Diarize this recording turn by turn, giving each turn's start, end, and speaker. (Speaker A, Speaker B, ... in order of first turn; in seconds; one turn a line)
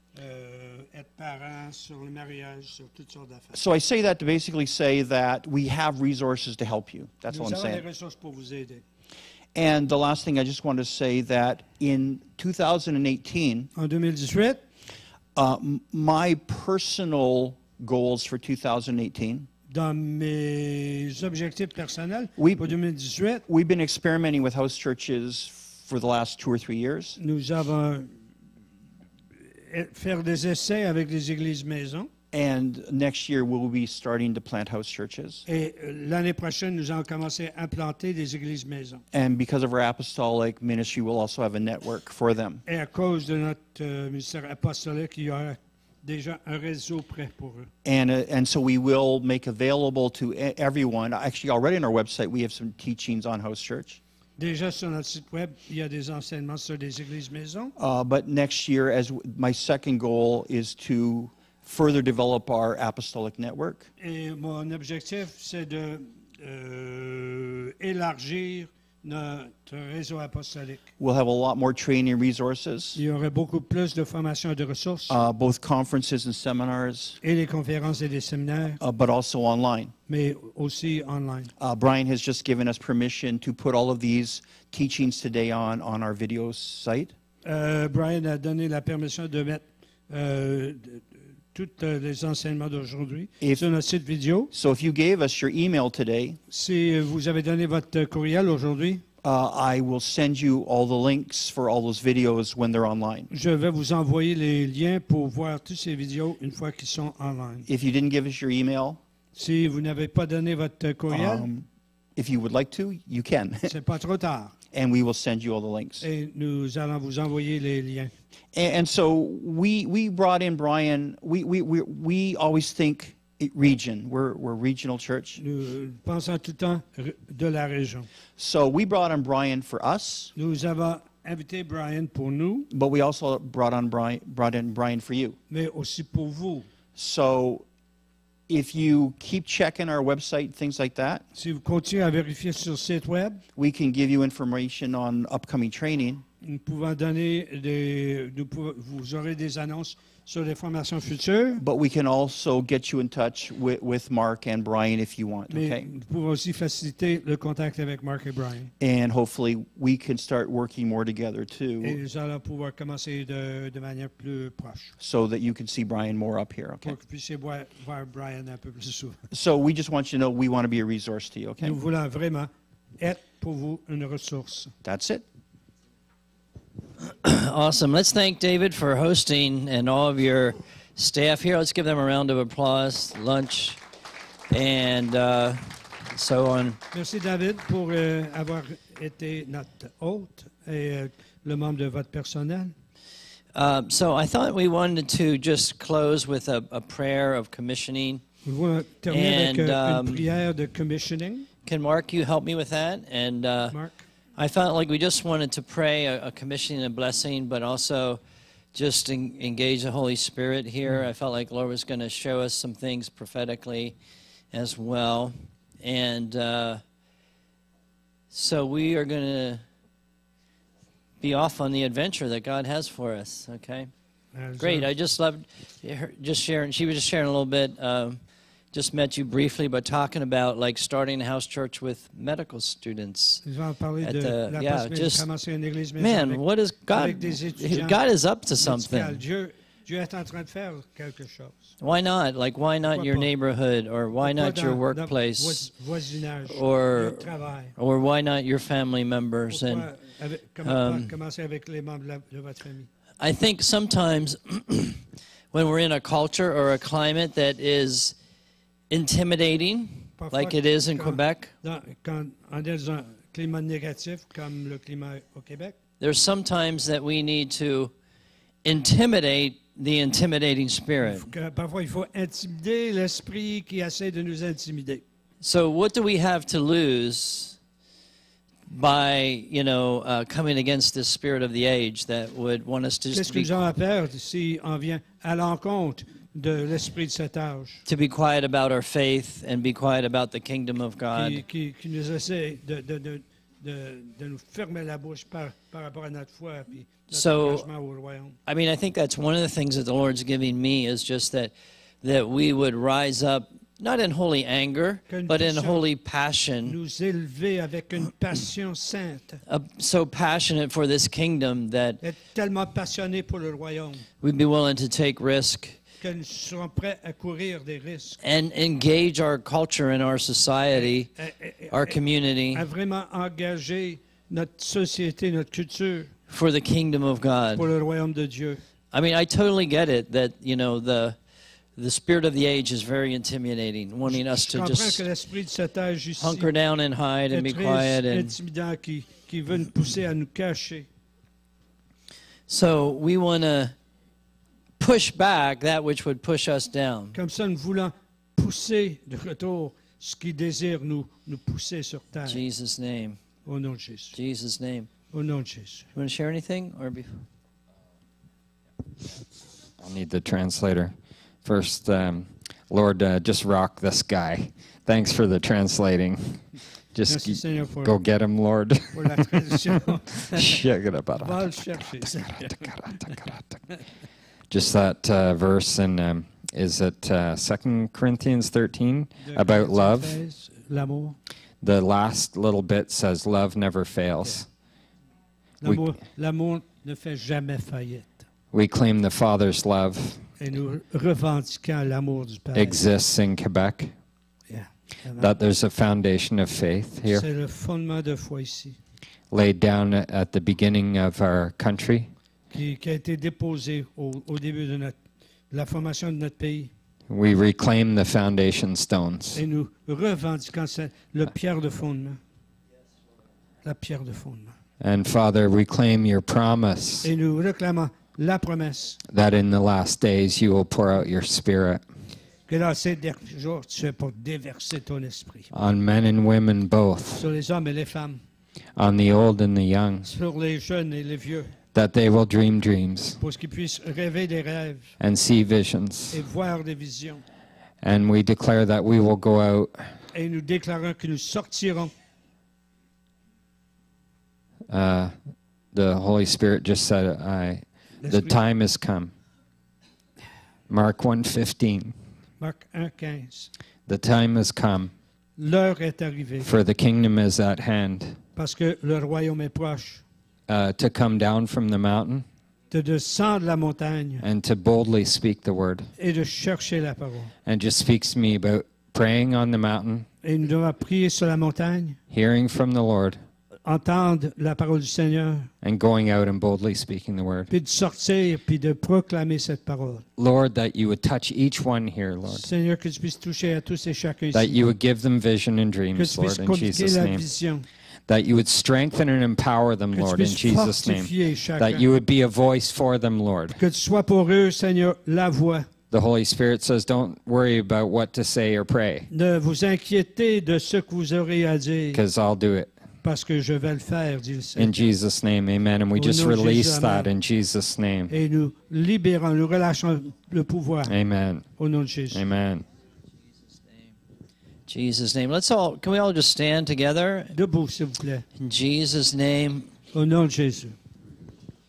Speaker A: 0.1-3.6
Speaker B: 3.5-7.8
Speaker A: 7.3-8.8
Speaker B: 9.6-13.7
Speaker A: 13.8-14.6
Speaker B: 15.4-19.5
Speaker A: 19.7-23.4
Speaker B: 22.4-22.8
Speaker B: 23.5-27.2
Speaker A: 27.2-28.1
Speaker A: 29.5-32.1
Speaker B: 32.3-35.4
Speaker A: 35.5-39.0
Speaker B: 39.1-42.6
Speaker A: 42.7-47.7
Speaker B: 47.9-54.0
Speaker A: 54.4-57.7
Speaker B: 57.8-63.9
Speaker A: 64.0-70.9
Speaker B: 71.0-73.0
Speaker A: 73.0-75.2
Speaker B: 75.1-77.2
Speaker A: 77.2-78.8
Speaker B: 78.8-79.9
Speaker A: 80.1-81.5
Speaker B: 81.6-87.2
Speaker A: 87.4-94.5
Speaker B: 94.5-96.4
Speaker A: 96.5-99.0
Speaker B: 99.2-103.3
Speaker A: 103.3-107.7
Speaker B: 107.7-109.0
Speaker A: 109.3-111.5
Speaker B: 111.1-113.7
Speaker A: 113.7-114.5
Speaker B: 114.7-116.1
Speaker A: 116.0-118.1
Speaker B: 118.5-125.4
Speaker A: 125.4-128.1
Speaker B: 128.4-130.3
Speaker A: 130.4-132.7
Speaker B: 132.7-135.4
Speaker A: 135.5-136.7
Speaker B: 136.9-137.7
Speaker B: 138.5-141.3
Speaker A: 141.3-143.4
Speaker B: 143.6-146.2
Speaker A: 146.4-151.6
Speaker B: 151.6-155.9
Speaker A: 155.5-158.7
Speaker B: 158.8-162.0
Speaker A: 161.8-164.9
Speaker B: 165.0-167.0
Speaker A: 166.8-169.2
Speaker B: 169.3-171.8
Speaker A: 171.6-174.7
Speaker B: 174.8-175.2
Speaker C: 177.0-183.8
Speaker C: 184.5-186.8
Speaker A: 186.9-192.8
Speaker C: 193.6-198.2
Speaker A: 198.4-201.5
Speaker C: 199.1-200.3
Speaker C: 201.7-203.8
Speaker A: 203.7-204.0
Speaker C: 204.4-208.2
Speaker C: 208.7-214.0
Speaker C: 214.5-216.8
Speaker C: 218.3-219.6
Speaker C: 221.2-223.9
Speaker A: 224.3-224.9
Speaker C: 224.6-228.2
Speaker C: 228.7-233.4
Speaker A: 233.4-238.0
Speaker C: 234.0-235.3
Speaker C: 236.0-239.2
Speaker A: 238.6-241.7
Speaker C: 241.8-245.7
Speaker A: 242.9-243.3
Speaker A: 244.2-247.7
Speaker C: 246.5-249.9
Speaker A: 249.5-252.9
Speaker C: 250.6-251.1
Speaker C: 253.2-258.1
Speaker C: 258.9-261.5
Speaker A: 260.2-265.8
Speaker C: 266.0-267.9
Speaker C: 268.6-271.3
Speaker A: 271.0-275.0
Speaker C: 275.4-277.6
Speaker C: 278.7-283.6
Speaker A: 283.1-287.8
Speaker C: 287.9-291.4
Speaker A: 291.1-298.4
Speaker C: 297.1-297.7
Speaker C: 298.5-306.8
Speaker A: 305.1-305.9
Speaker A: 306.6-309.4
Speaker C: 309.5-312.0
Speaker A: 312.0-314.1
Speaker C: 314.2-315.8
Speaker A: 316.0-318.2
Speaker C: 318.2-321.1
Speaker A: 320.8-322.0
Speaker C: 321.7-322.6
Speaker A: 322.5-326.1
Speaker C: 326.3-327.7
Speaker A: 327.5-328.6
Speaker C: 328.9-331.2
Speaker C: 331.8-335.1
Speaker A: 334.1-336.5
Speaker C: 336.2-338.4
Speaker A: 337.3-340.9
Speaker C: 342.5-343.7
Speaker C: 344.8-347.2
Speaker A: 347.1-352.4
Speaker C: 352.2-353.2
Speaker A: 353.4-354.2
Speaker C: 354.1-354.9
Speaker A: 355.1-355.9
Speaker C: 355.9-357.2
Speaker D: 359.8-373.6
Speaker A: 367.1-367.9
Speaker A: 368.9-370.6
Speaker A: 371.2-373.2
Speaker D: 374.5-380.2
Speaker A: 379.2-381.2
Speaker D: 381.6-384.5
Speaker A: 385.6-388.2
Speaker D: 388.5-390.3
Speaker A: 390.4-392.8
Speaker D: 392.5-393.9
Speaker A: 394.5-395.3
Speaker D: 395.2-397.3
Speaker A: 397.1-398.8
Speaker D: 399.3-402.1
Speaker A: 402.5-405.0
Speaker A: 405.5-406.7
Speaker D: 407.1-409.4
Speaker A: 409.3-412.2
Speaker A: 413.6-414.5
Speaker D: 414.8-417.1
Speaker A: 417.0-419.0
Speaker D: 419.1-421.8
Speaker A: 422.5-425.5
Speaker D: 425.5-427.3
Speaker A: 427.1-428.2
Speaker D: 428.8-430.1
Speaker A: 430.0-431.5
Speaker D: 431.7-433.2
Speaker A: 433.2-434.9
Speaker D: 435.0-436.2
Speaker A: 436.1-437.2
Speaker D: 437.8-439.9
Speaker A: 440.1-441.9
Speaker D: 444.7-445.1
Speaker D: 445.7-449.1
Speaker A: 448.0-448.4
Speaker D: 450.7-451.9
Speaker A: 452.4-453.5
Speaker D: 453.9-454.9
Speaker A: 455.4-456.5
Speaker D: 456.4-458.2
Speaker A: 458.4-460.0
Speaker D: 460.5-462.2
Speaker A: 462.7-464.3
Speaker D: 464.2-465.9
Speaker A: 466.0-467.3
Speaker D: 467.5-470.1
Speaker A: 470.2-472.0
Speaker D: 472.1-473.2
Speaker A: 473.6-475.5
Speaker D: 475.6-477.5
Speaker A: 477.5-480.1
Speaker D: 480.2-482.5
Speaker A: 482.3-484.6
Speaker D: 484.3-487.2
Speaker A: 485.9-487.7
Speaker D: 488.1-493.6
Speaker A: 489.9-491.8
Speaker A: 493.5-495.7
Speaker D: 495.9-499.1
Speaker A: 499.1-502.0
Speaker D: 501.9-502.8
Speaker A: 503.0-504.8
Speaker D: 504.6-508.1
Speaker A: 505.9-507.1
Speaker A: 508.1-510.9
Speaker D: 510.9-511.5
Speaker A: 511.6-512.2
Speaker D: 512.1-512.7
Speaker C: 514.7-517.4
Speaker A: 517.3-518.3
Speaker C: 518.4-519.7
Speaker A: 519.9-520.8